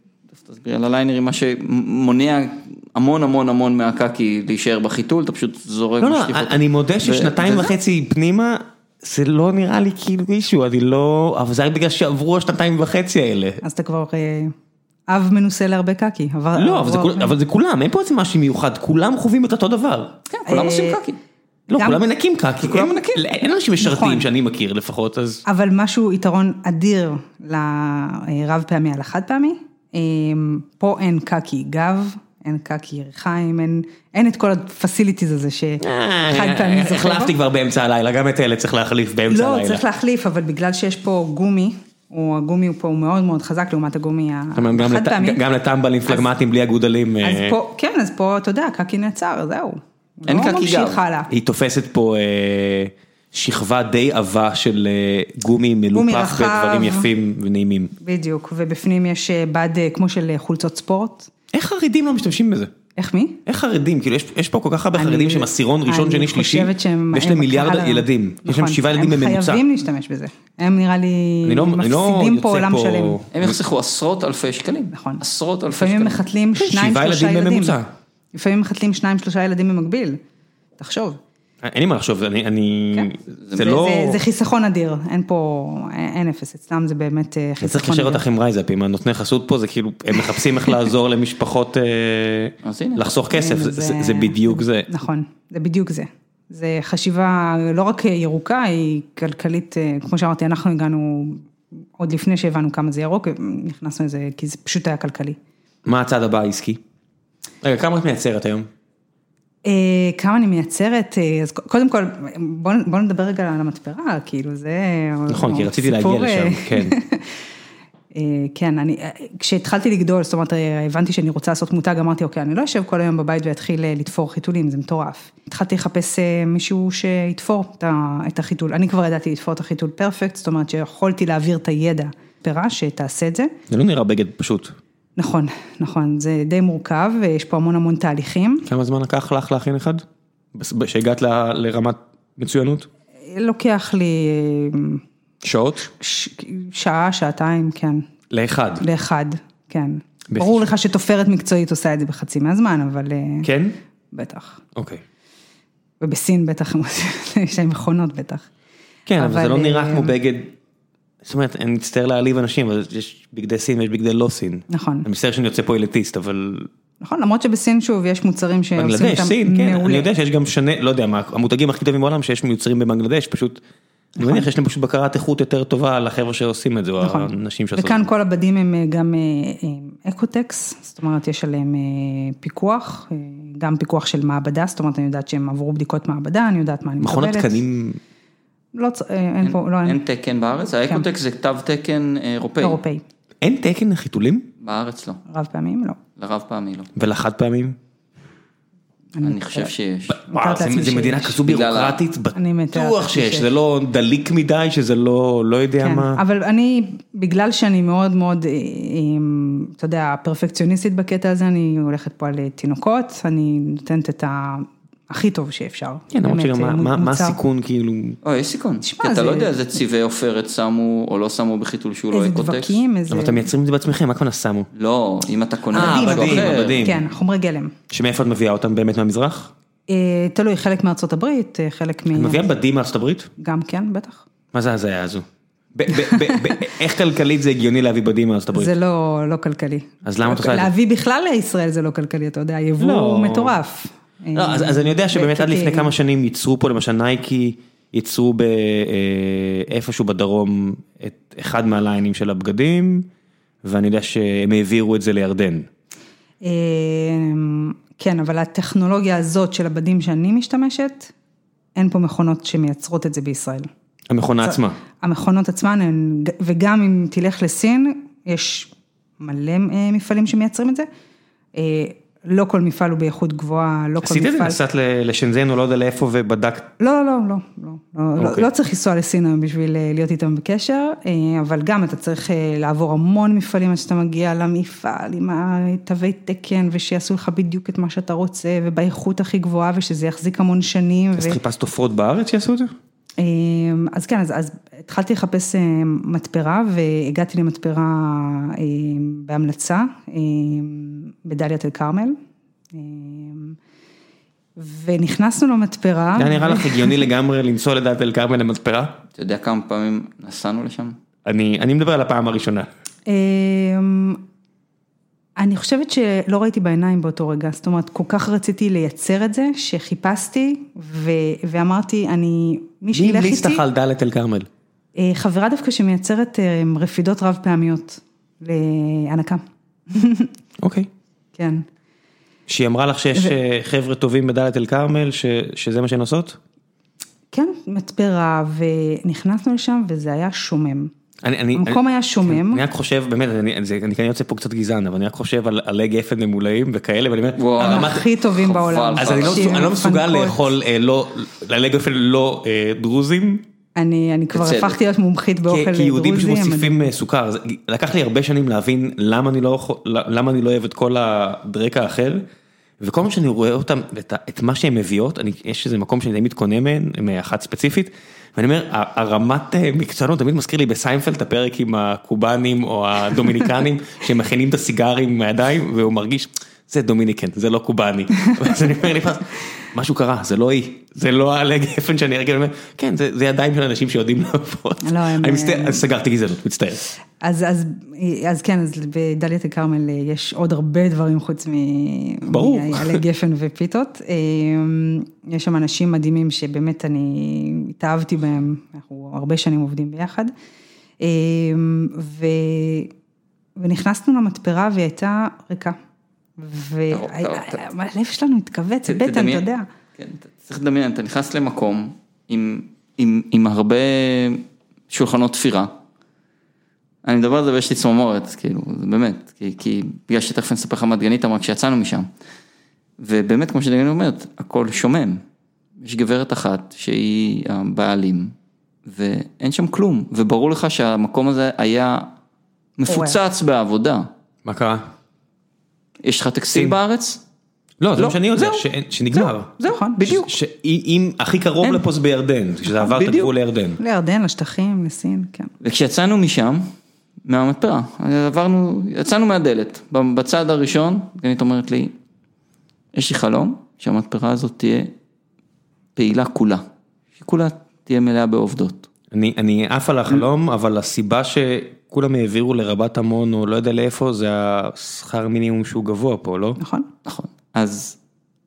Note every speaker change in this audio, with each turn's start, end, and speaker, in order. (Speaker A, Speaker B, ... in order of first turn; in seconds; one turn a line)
Speaker A: 0.4-7.8
Speaker B: 6.0-13.6
Speaker C: 13.6-14.5
Speaker C: 15.1-17.3
Speaker B: 16.5-20.1
Speaker A: 20.3-21.2
Speaker C: 20.4-21.0
Speaker B: 21.7-25.4
Speaker C: 21.8-22.0
Speaker A: 22.6-23.1
Speaker C: 23.8-24.3
Speaker C: 25.4-37.3
Speaker B: 35.8-39.8
Speaker C: 39.3-45.4
Speaker B: 44.5-47.6
Speaker C: 47.2-51.3
Speaker A: 50.3-51.0
Speaker B: 51.3-57.9
Speaker C: 55.9-57.1
Speaker C: 58.0-61.3
Speaker B: 61.5-62.7
Speaker C: 63.0-63.4
Speaker B: 63.5-69.6
Speaker C: 64.9-73.2
Speaker B: 71.4-73.6
Speaker A: 73.3-76.2
Speaker C: 74.9-77.8
Speaker B: 76.5-77.9
Speaker C: 78.3-80.2
Speaker C: 80.8-81.2
Speaker B: 81.6-84.2
Speaker C: 82.9-88.2
Speaker A: 83.4-83.8
Speaker B: 87.6-94.9
Speaker C: 90.3-90.8
Speaker A: 92.6-93.1
Speaker C: 93.3-101.4
Speaker C: 102.0-105.4
Speaker B: 105.8-106.8
Speaker B: 107.6-108.7
Speaker C: 109.6-117.3
Speaker B: 115.3-117.0
Speaker C: 118.1-133.5
Speaker B: 133.7-134.8
Speaker C: 135.2-138.7
Speaker B: 138.6-142.9
Speaker C: 143.2-145.0
Speaker B: 145.4-145.9
Speaker C: 146.0-148.1
Speaker B: 148.3-148.8
Speaker C: 148.8-153.5
Speaker B: 150.3-150.7
Speaker B: 153.4-153.8
Speaker C: 154.1-154.6
Speaker B: 154.7-155.0
Speaker C: 156.0-158.5
Speaker B: 159.1-160.5
Speaker C: 159.2-160.2
Speaker B: 161.2-166.7
Speaker C: 164.7-165.1
Speaker C: 167.0-170.1
Speaker B: 168.8-173.6
Speaker B: 174.2-178.1
Speaker C: 174.2-174.5
Speaker C: 177.0-187.6
Speaker B: 187.0-188.0
Speaker C: 188.7-190.0
Speaker A: 189.4-192.8
Speaker C: 190.7-191.1
Speaker C: 192.6-193.0
Speaker B: 193.4-194.5
Speaker A: 194.6-195.2
Speaker C: 195.3-196.0
Speaker A: 196.2-196.9
Speaker B: 196.9-197.8
Speaker C: 199.2-199.7
Speaker A: 199.2-200.2
Speaker B: 200.1-206.2
Speaker C: 200.3-201.4
Speaker A: 201.4-202.0
Speaker C: 202.3-203.5
Speaker C: 205.8-217.4
Speaker B: 216.1-218.2
Speaker A: 218.2-222.8
Speaker C: 218.8-219.5
Speaker C: 222.1-223.5
Speaker B: 223.1-224.7
Speaker A: 224.7-226.9
Speaker B: 225.7-227.0
Speaker C: 225.7-227.7
Speaker B: 227.9-229.5
Speaker C: 229.9-232.5
Speaker B: 232.1-233.3
Speaker C: 233.4-234.2
Speaker B: 234.5-238.7
Speaker C: 235.9-236.6
Speaker C: 238.5-245.9
Speaker B: 240.0-240.7
Speaker B: 242.8-243.6
Speaker B: 244.3-253.1
Speaker B: 253.6-255.7
Speaker C: 256.4-261.1
Speaker C: 261.7-263.7
Speaker B: 264.1-264.8
Speaker C: 264.4-270.9
Speaker C: 271.5-274.6
Speaker B: 274.0-276.7
Speaker C: 276.8-291.4
Speaker B: 278.2-278.5
Speaker B: 291.2-292.7
Speaker C: 293.2-302.2
Speaker C: 302.7-303.6
Speaker C: 304.6-307.0
Speaker B: 306.1-309.0
Speaker A: 309.1-310.9
Speaker B: 311.2-312.7
Speaker C: 313.1-314.2
Speaker C: 315.4-323.6
Speaker B: 322.9-324.5
Speaker C: 324.9-330.3
Speaker B: 330.6-330.9
Speaker C: 331.3-331.6
Speaker B: 332.5-336.4
Speaker C: 337.3-340.9
Speaker B: 341.2-348.1
Speaker C: 341.5-342.6
Speaker A: 347.4-349.7
Speaker C: 347.6-350.5
Speaker B: 349.0-353.4
Speaker C: 353.8-356.9
Speaker A: 354.3-354.8
Speaker B: 355.5-362.2
Speaker B: 362.8-386.8
Speaker C: 378.4-378.7
Speaker C: 384.8-385.8
Speaker C: 387.2-400.3
Speaker B: 392.2-393.0
Speaker C: 401.0-402.9
Speaker C: 403.6-405.8
Speaker C: 406.4-409.7
Speaker A: 406.9-407.6
Speaker A: 408.9-415.7
Speaker A: 417.0-422.1
Speaker A: 423.0-425.2
Speaker A: 425.8-428.3
Speaker A: 428.9-432.1
Speaker A: 432.8-434.1
Speaker C: 432.9-433.2
Speaker B: 434.4-434.9
Speaker A: 436.0-437.2
Speaker B: 437.8-443.8
Speaker A: 438.0-438.6
Speaker A: 439.6-440.3
Speaker C: 439.6-440.2
Speaker A: 442.7-443.3
Speaker C: 443.8-445.5
Speaker A: 445.6-446.7
Speaker A: 447.2-451.9
Speaker A: 452.9-454.9
Speaker A: 455.9-456.6
Speaker A: 457.2-458.9
Speaker B: 459.1-466.6
Speaker C: 466.6-466.9
Speaker A: 467.1-468.0